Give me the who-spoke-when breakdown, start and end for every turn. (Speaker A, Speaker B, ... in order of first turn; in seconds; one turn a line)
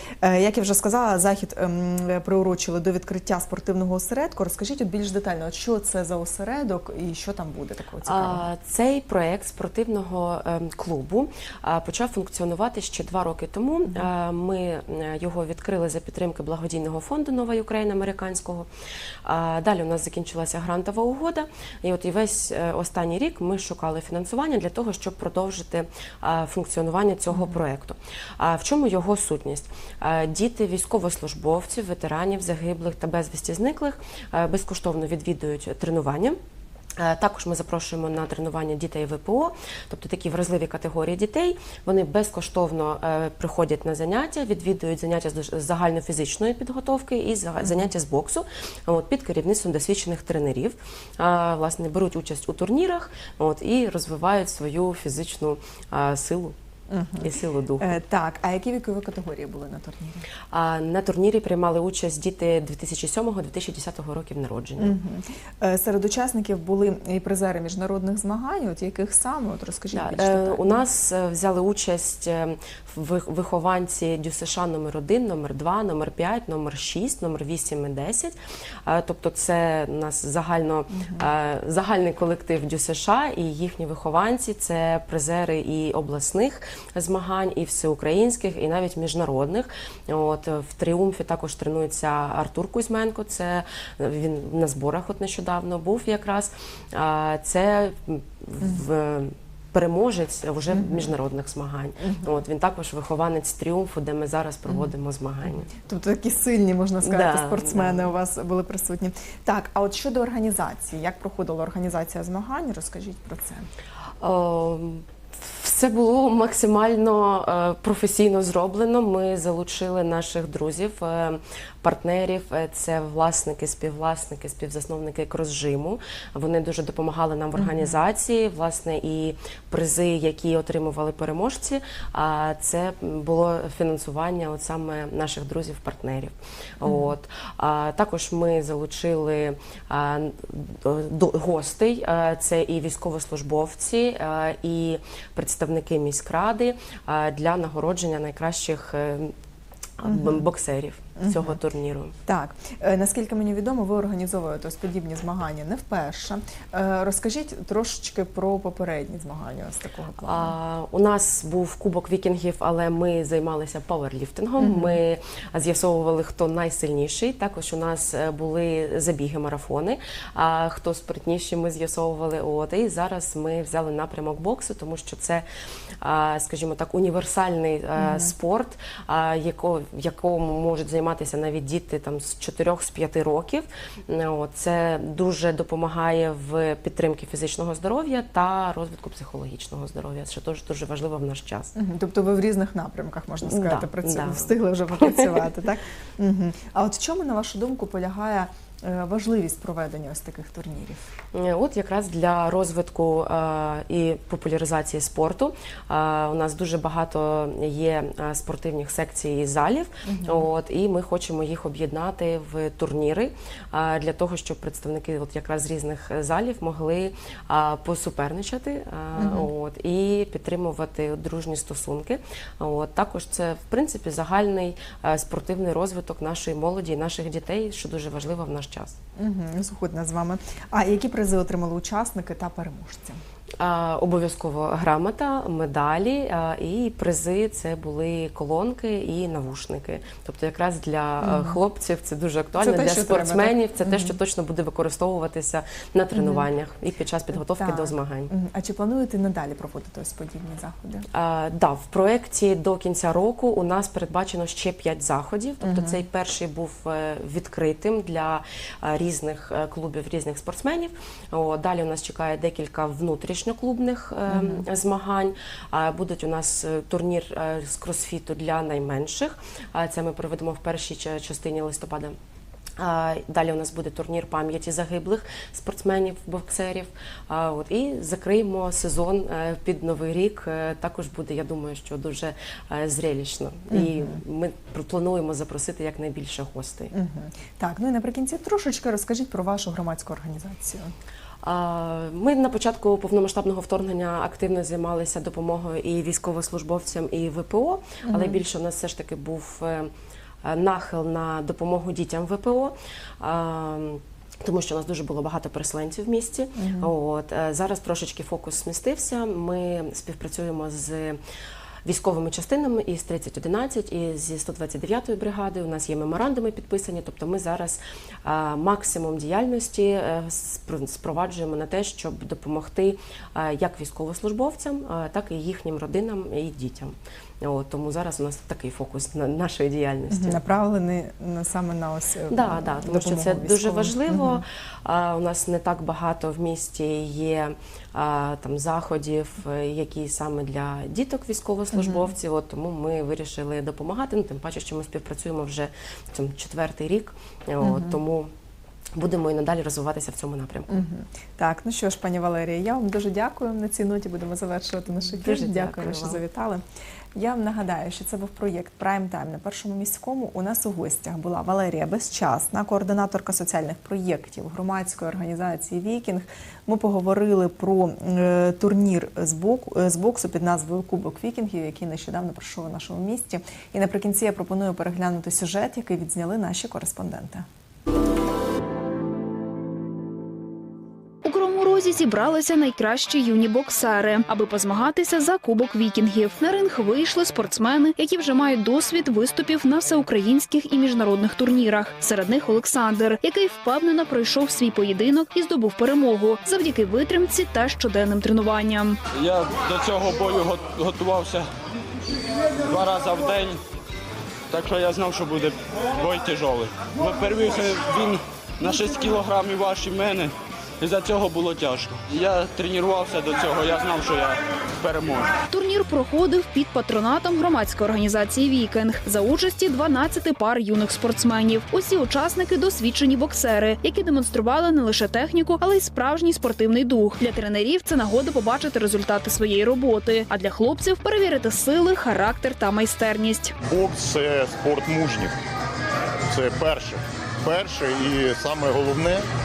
Speaker A: 0.2-8.4
Speaker B: 8.0-18.7
Speaker B: 19.2-36.4
Speaker A: 27.3-27.6
Speaker B: 37.0-56.5
Speaker A: 47.6-47.9
Speaker A: 56.9-60.2
Speaker B: 57.2-58.0
Speaker B: 60.5-64.9
Speaker A: 64.8-70.8
Speaker B: 69.9-105.7
Speaker A: 80.9-81.3
Speaker A: 100.7-101.1
Speaker A: 102.0-102.3
Speaker A: 105.7-113.7
Speaker B: 107.0-108.1
Speaker B: 114.2-149.3
Speaker A: 127.5-128.0
Speaker A: 136.8-137.1
Speaker B: 150.0-152.1
Speaker A: 150.0-150.4
Speaker A: 151.2-151.6
Speaker A: 152.2-160.6
Speaker B: 160.2-175.4
Speaker A: 164.6-165.0
Speaker B: 176.0-191.7
Speaker A: 177.9-178.3
Speaker A: 191.7-201.2
Speaker B: 193.4-195.4
Speaker B: 201.3-228.9
Speaker A: 210.0-210.5
Speaker A: 219.1-219.5
Speaker A: 229.2-233.2
Speaker B: 233.6-248.3
Speaker A: 241.2-241.6
Speaker A: 242.6-244.2
Speaker A: 246.1-246.5
Speaker A: 247.3-251.1
Speaker B: 251.1-272.1
Speaker A: 255.6-256.0
Speaker A: 264.3-264.6
Speaker B: 272.8-286.9
Speaker A: 283.7-284.2
Speaker A: 286.9-290.9
Speaker B: 291.4-299.9
Speaker A: 298.0-298.4
Speaker B: 300.4-311.2
Speaker A: 306.6-306.9
Speaker B: 311.8-330.4
Speaker A: 330.1-334.4
Speaker B: 332.3-348.3
Speaker A: 341.7-342.1
Speaker A: 347.6-348.0
Speaker B: 348.9-350.8
Speaker A: 350.7-356.6
Speaker B: 355.1-356.2
Speaker A: 357.1-377.4
Speaker C: 381.2-399.0
Speaker D: 399.1-401.5
Speaker D: 402.6-403.6
Speaker D: 404.5-415.3
Speaker C: 415.5-433.5
Speaker E: 433.7-435.3
Speaker E: 436.3-439.2